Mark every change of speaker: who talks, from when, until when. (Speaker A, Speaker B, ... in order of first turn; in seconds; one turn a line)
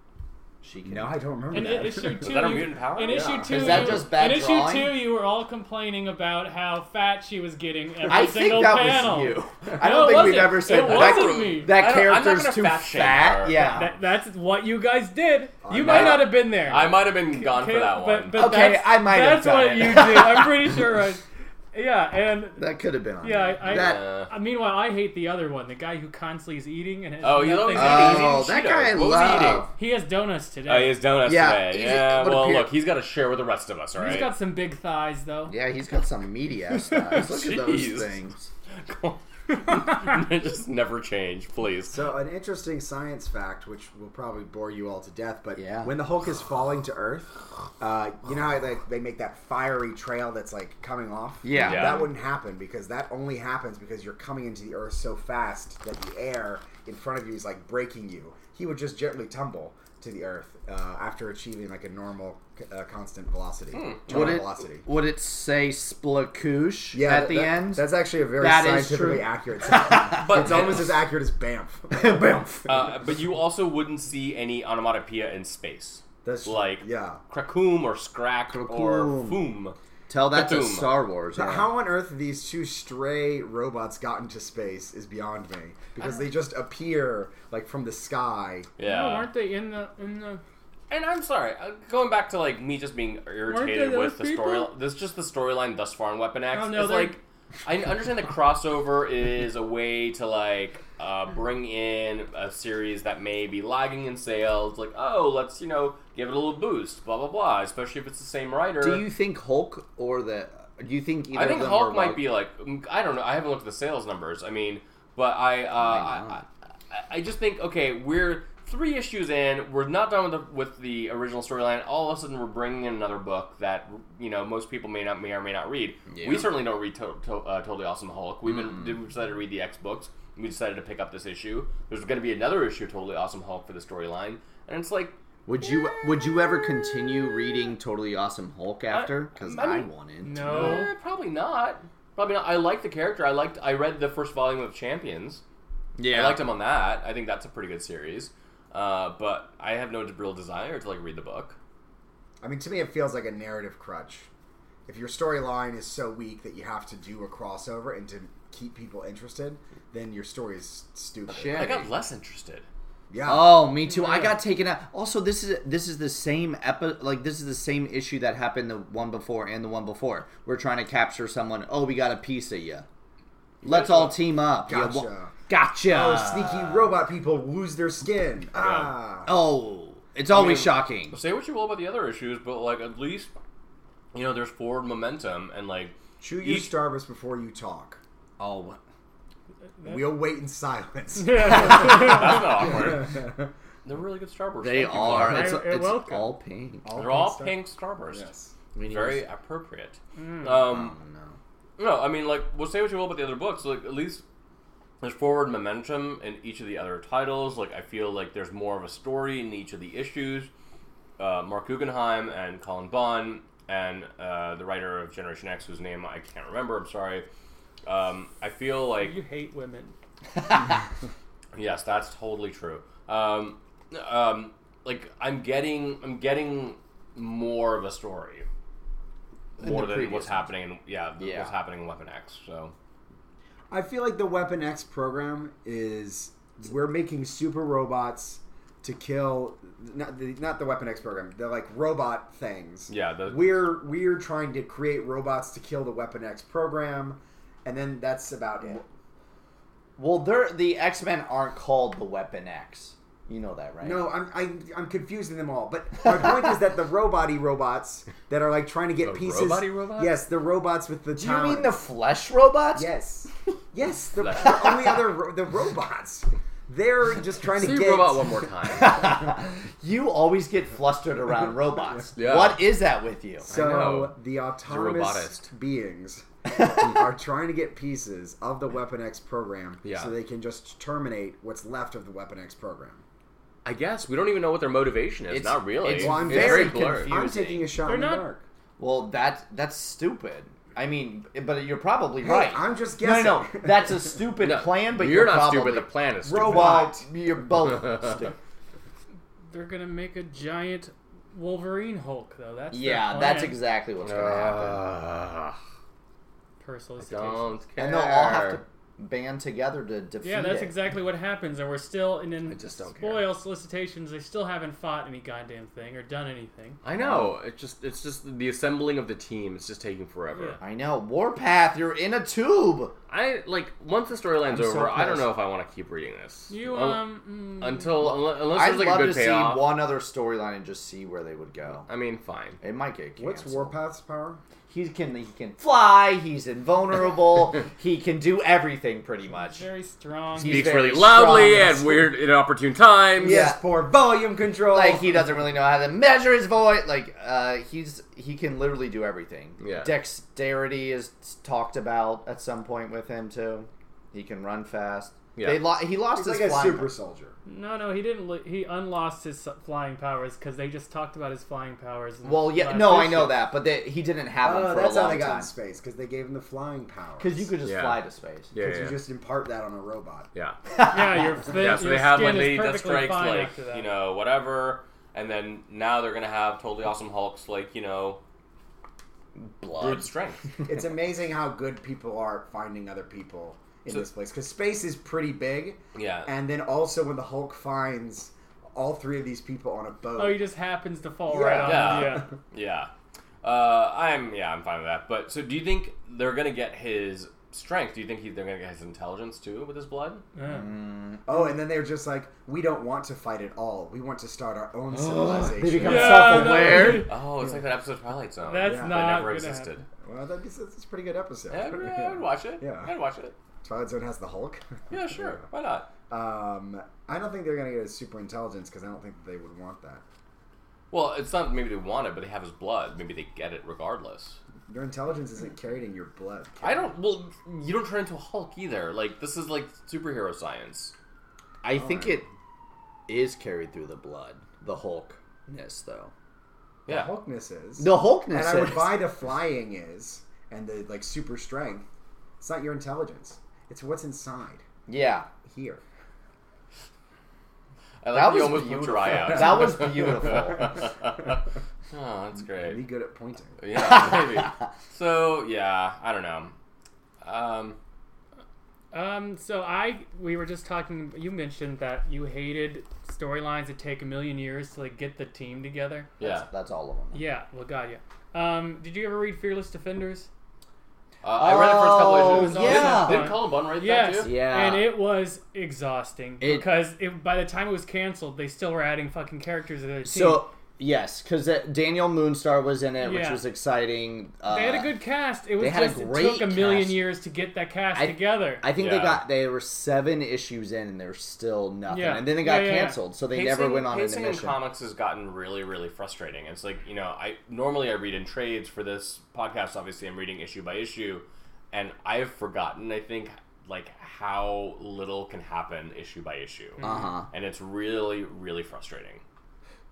Speaker A: 0.6-1.2
Speaker B: 0.9-2.5
Speaker C: 1.5-11.8
Speaker D: 2.2-4.1
Speaker A: 3.5-5.0
Speaker A: 8.1-13.9
Speaker D: 10.3-13.9
Speaker C: 13.6-22.7
Speaker B: 15.6-16.3
Speaker D: 15.7-18.5
Speaker A: 18.3-20.9
Speaker A: 22.6-24.1
Speaker C: 23.2-28.4
Speaker D: 23.7-24.3
Speaker D: 27.2-29.7
Speaker A: 27.7-29.7
Speaker C: 29.8-31.0
Speaker D: 30.7-34.3
Speaker A: 31.2-32.7
Speaker C: 34.0-35.5
Speaker A: 35.5-38.5
Speaker D: 36.8-38.2
Speaker D: 38.7-42.0
Speaker B: 41.9-64.9
Speaker A: 45.6-45.9
Speaker A: 51.4-52.0
Speaker D: 51.6-52.0
Speaker D: 63.7-64.4
Speaker A: 64.1-67.9
Speaker B: 66.9-72.4
Speaker A: 68.4-70.8
Speaker D: 70.1-71.0
Speaker A: 71.9-72.8
Speaker D: 72.7-79.8
Speaker B: 76.2-77.2
Speaker A: 78.5-79.5
Speaker A: 80.1-81.7
Speaker D: 80.3-81.0
Speaker B: 81.3-88.7
Speaker D: 88.8-89.3
Speaker C: 88.8-90.4
Speaker D: 90.9-109.1
Speaker C: 93.5-94.7
Speaker C: 96.5-97.2
Speaker A: 108.8-112.2
Speaker D: 111.3-135.2
Speaker A: 115.8-116.4
Speaker A: 126.1-126.5
Speaker A: 128.5-128.9
Speaker A: 135.5-140.9
Speaker D: 138.9-139.9
Speaker C: 140.2-140.9
Speaker D: 140.4-145.4
Speaker A: 146.0-146.4
Speaker D: 146.1-151.6
Speaker B: 152.4-154.3
Speaker B: 154.9-161.8
Speaker A: 161.3-161.9
Speaker D: 161.5-162.7
Speaker B: 163.1-163.8
Speaker A: 163.2-172.9
Speaker C: 163.9-164.3
Speaker D: 173.6-174.2
Speaker A: 173.6-177.0
Speaker B: 174.6-175.3
Speaker B: 175.8-179.4
Speaker A: 179.3-181.2
Speaker D: 180.3-183.3
Speaker D: 184.1-186.8
Speaker B: 186.2-188.0
Speaker A: 188.4-188.8
Speaker B: 189.8-193.5
Speaker C: 191.2-192.5
Speaker D: 191.6-193.3
Speaker D: 193.8-195.6
Speaker A: 194.6-196.9
Speaker C: 195.1-196.3
Speaker B: 196.8-198.6
Speaker D: 197.0-198.3
Speaker A: 198.8-199.2
Speaker D: 198.8-201.0
Speaker C: 200.2-200.5
Speaker A: 200.6-201.4
Speaker D: 201.8-204.2
Speaker D: 205.0-210.5
Speaker D: 211.2-217.3
Speaker D: 217.8-219.2
Speaker C: 219.0-219.9
Speaker D: 221.5-228.5
Speaker D: 229.6-232.7
Speaker A: 229.6-230.5
Speaker A: 231.2-231.5
Speaker B: 233.7-248.9
Speaker D: 242.9-243.7
Speaker A: 250.0-254.1
Speaker B: 253.8-261.8
Speaker D: 259.0-260.2
Speaker A: 261.1-262.9
Speaker B: 262.7-268.5
Speaker D: 264.2-264.7
Speaker A: 264.4-265.0
Speaker D: 267.6-269.0
Speaker A: 268.7-273.5
Speaker D: 272.2-272.6
Speaker D: 273.4-275.5
Speaker B: 273.4-283.0
Speaker D: 279.8-280.1
Speaker D: 283.6-287.4
Speaker A: 285.3-287.3
Speaker B: 285.9-288.4
Speaker C: 287.7-288.3
Speaker A: 288.8-298.4
Speaker B: 292.2-294.2
Speaker D: 294.4-296.9
Speaker B: 296.2-297.1
Speaker C: 299.5-303.6
Speaker A: 302.7-304.8
Speaker D: 304.0-305.6
Speaker C: 306.6-307.5
Speaker D: 307.1-308.6
Speaker A: 307.8-310.8
Speaker C: 310.2-316.8
Speaker D: 312.5-313.3
Speaker D: 316.8-320.6
Speaker A: 316.9-317.4
Speaker C: 320.3-320.6
Speaker A: 320.6-322.9
Speaker D: 323.1-327.1
Speaker A: 324.5-325.3
Speaker C: 326.5-328.2
Speaker D: 327.6-329.7
Speaker A: 328.5-331.9
Speaker D: 331.9-332.6
Speaker A: 332.6-333.8
Speaker B: 333.2-334.4
Speaker A: 334.7-339.6
Speaker C: 339.4-340.8
Speaker A: 340.4-342.1
Speaker D: 340.4-343.4
Speaker B: 343.2-345.3
Speaker A: 343.2-343.6
Speaker A: 344.7-356.9
Speaker D: 349.6-349.9
Speaker D: 355.4-355.6
Speaker B: 356.1-357.4
Speaker C: 357.5-363.4
Speaker A: 362.2-365.5
Speaker B: 364.4-367.6
Speaker A: 367.2-368.5
Speaker D: 367.6-369.0
Speaker B: 368.6-370.3
Speaker A: 370.7-371.4
Speaker C: 370.8-373.9
Speaker D: 371.6-378.2
Speaker A: 379.4-380.6
Speaker D: 379.8-380.5
Speaker B: 380.6-390.4
Speaker D: 385.9-386.3
Speaker C: 390.1-392.3
Speaker B: 391.3-392.3
Speaker D: 391.6-392.9
Speaker D: 393.4-400.2
Speaker C: 400.4-400.7
Speaker A: 400.5-401.3
Speaker B: 401.2-407.6
Speaker A: 404.9-407.1
Speaker C: 405.8-407.1
Speaker D: 406.9-409.9
Speaker C: 408.5-409.7
Speaker B: 408.6-409.4
Speaker B: 410.0-412.9
Speaker D: 411.5-413.4
Speaker B: 413.6-415.4
Speaker D: 414.9-415.9
Speaker B: 416.1-420.0
Speaker D: 420.9-424.4
Speaker B: 424.7-426.9
Speaker D: 426.6-430.9
Speaker A: 431.6-432.3
Speaker B: 431.7-432.3
Speaker A: 433.1-436.1
Speaker D: 436.9-437.1
Speaker B: 436.9-441.9
Speaker A: 437.8-439.0
Speaker B: 442.4-444.6
Speaker A: 444.9-445.3
Speaker B: 445.4-445.8
Speaker D: 448.0-451.4
Speaker A: 448.1-450.8
Speaker D: 451.9-452.9
Speaker B: 452.6-453.6
Speaker D: 453.6-456.6
Speaker A: 453.8-454.6
Speaker D: 457.2-457.8
Speaker C: 458.9-466.1
Speaker D: 466.2-466.5
Speaker A: 466.2-467.3
Speaker C: 467.1-470.3
Speaker D: 471.2-474.3
Speaker A: 471.3-473.4
Speaker C: 472.1-480.5
Speaker A: 474.2-474.9
Speaker A: 476.4-476.8
Speaker A: 480.0-484.9
Speaker C: 483.0-483.4
Speaker C: 484.5-488.6
Speaker A: 485.6-487.0
Speaker A: 487.9-494.6
Speaker D: 488.8-489.3
Speaker C: 491.9-493.0
Speaker D: 493.3-509.2
Speaker C: 506.8-507.1
Speaker A: 506.8-507.3